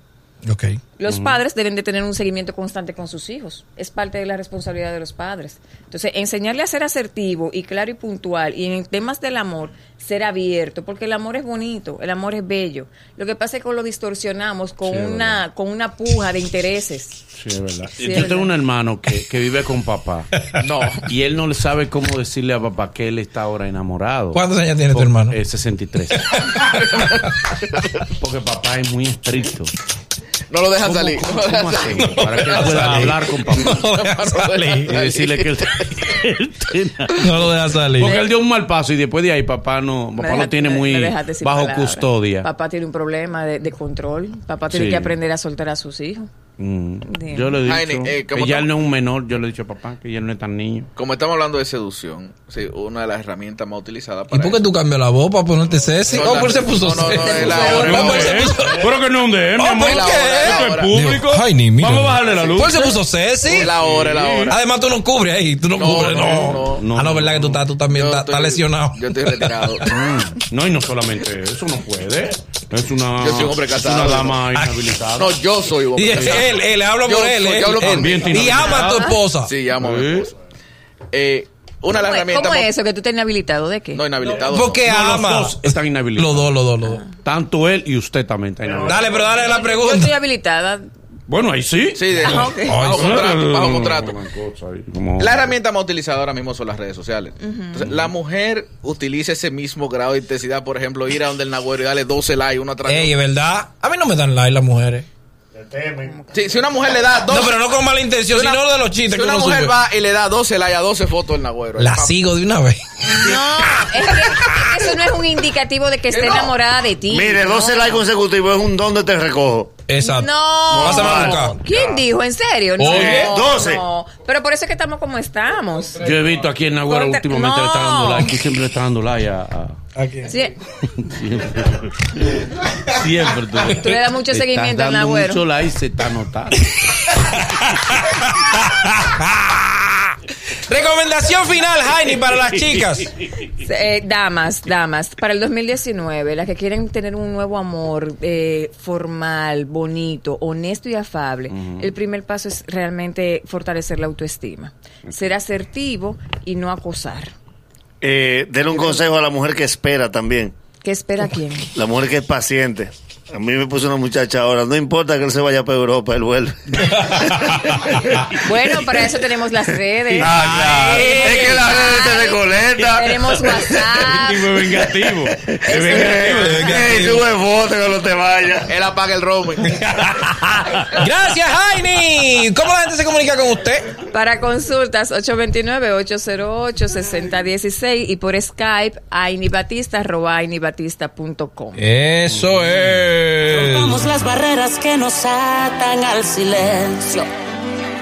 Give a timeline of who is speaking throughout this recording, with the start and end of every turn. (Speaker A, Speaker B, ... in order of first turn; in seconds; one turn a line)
Speaker A: 0.5-0.8
Speaker B: 1.0-17.2
Speaker C: 1.1-1.4
Speaker C: 14.8-15.4
Speaker C: 17.4-20.4
Speaker B: 18.0-18.5
Speaker D: 20.6-21.1
Speaker C: 21.0-26.4
Speaker A: 24.3-25.4
Speaker A: 26.1-26.6
Speaker D: 26.5-27.9
Speaker C: 28.1-29.7
Speaker D: 30.5-35.6
Speaker C: 30.8-33.8
Speaker A: 31.9-34.9
Speaker C: 34.9-37.3
Speaker A: 37.2-38.2
Speaker C: 38.0-42.5
Speaker B: 38.0-38.3
Speaker B: 40.2-46.3
Speaker C: 44.7-45.1
Speaker C: 46.6-50.9
Speaker B: 47.1-47.6
Speaker D: 47.6-48.7
Speaker D: 51.0-54.7
Speaker A: 54.3-58.9
Speaker D: 56.1-58.9
Speaker B: 57.0-58.6
Speaker C: 57.6-63.0
Speaker A: 59.6-63.7
Speaker D: 59.8-61.0
Speaker D: 63.5-64.6
Speaker C: 63.5-64.6
Speaker A: 64.5-70.0
Speaker D: 65.7-66.9
Speaker C: 66.1-67.6
Speaker D: 67.8-69.9
Speaker C: 69.9-75.4
Speaker D: 73.1-74.5
Speaker D: 75.2-80.3
Speaker A: 75.9-79.6
Speaker C: 77.8-79.0
Speaker B: 78.8-79.2
Speaker C: 79.7-80.3
Speaker D: 81.1-82.7
Speaker B: 81.9-84.0
Speaker D: 83.9-84.9
Speaker C: 84.2-86.5
Speaker A: 84.5-87.1
Speaker C: 87.1-89.0
Speaker E: 88.7-89.2
Speaker A: 88.8-90.1
Speaker B: 89.2-90.9
Speaker C: 91.3-95.5
Speaker D: 92.0-94.2
Speaker B: 92.2-93.2
Speaker A: 92.7-93.1
Speaker D: 95.2-103.2
Speaker B: 97.4-97.9
Speaker A: 102.8-105.1
Speaker E: 105.5-106.3
Speaker B: 106.1-106.7
Speaker D: 106.3-107.7
Speaker A: 107.3-109.8
Speaker D: 108.2-112.2
Speaker A: 111.8-112.8
Speaker B: 113.0-118.0
Speaker D: 116.1-116.5
Speaker E: 117.1-119.8
Speaker A: 119.9-121.6
Speaker B: 120.0-126.1
Speaker E: 120.7-121.9
Speaker A: 122.8-123.3
Speaker E: 122.9-123.8
Speaker C: 126.0-129.8
Speaker B: 126.9-128.3
Speaker A: 130.0-130.3
Speaker B: 130.3-130.6
Speaker C: 131.0-136.7
Speaker B: 133.7-135.4
Speaker A: 137.6-140.1
Speaker A: 140.7-143.1
Speaker B: 143.6-157.3
Speaker E: 158.0-160.6
Speaker B: 158.7-159.0
Speaker B: 160.8-161.7
Speaker E: 161.7-167.3
Speaker B: 168.3-174.7
Speaker C: 170.1-171.1
Speaker E: 170.2-174.1
Speaker C: 174.0-176.6
Speaker E: 175.3-178.7
Speaker B: 175.6-176.8
Speaker A: 176.4-177.2
Speaker D: 178.7-179.9
Speaker A: 179.6-183.9
Speaker B: 184.1-191.8
Speaker A: 191.8-194.0
Speaker F: 193.5-197.3